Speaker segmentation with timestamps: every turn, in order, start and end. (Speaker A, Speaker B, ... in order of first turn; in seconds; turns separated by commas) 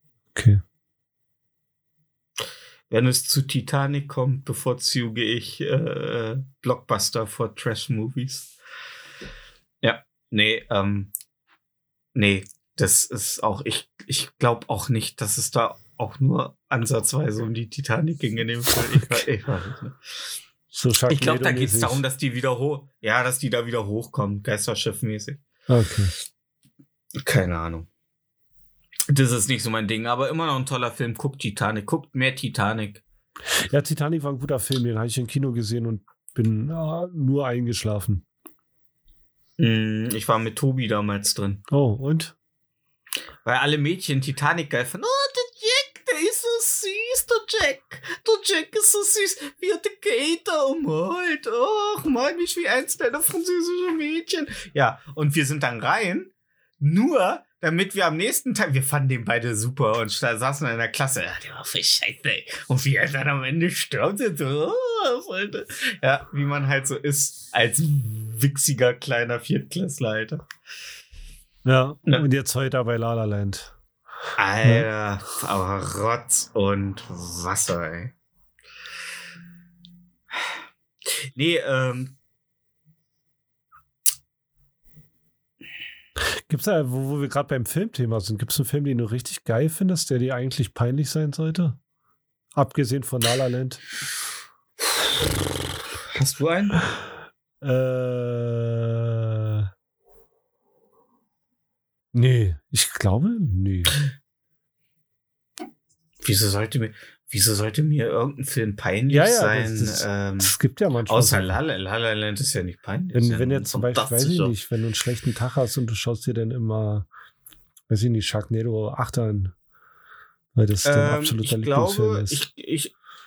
Speaker A: 0.3-0.6, Speaker B: 2.9-8.5, Speaker B: 9.8-11.1, Speaker B: 12.1-20.0, Speaker A: 20.7-22.0, Speaker B: 21.1-25.4, Speaker A: 25.7-26.1, Speaker B: 27.2-27.9, Speaker B: 29.1-33.0, Speaker A: 33.6-38.2, Speaker B: 39.6-41.6, Speaker A: 41.7-42.3, Speaker B: 43.4-70.5, Speaker A: 71.6-73.7, Speaker B: 74.3-78.1, Speaker B: 81.2-82.2, Speaker A: 86.5-91.8, Speaker A: 92.5-93.8, Speaker B: 96.1-96.8, Speaker A: 97.6-99.7, Speaker A: 102.1-104.0, Speaker B: 106.2-110.5, Speaker A: 109.1-111.5, Speaker B: 111.1-114.5, Speaker A: 113.1-117.1, Speaker A: 117.9-119.5, Speaker A: 120.5-122.4, Speaker B: 120.8-122.9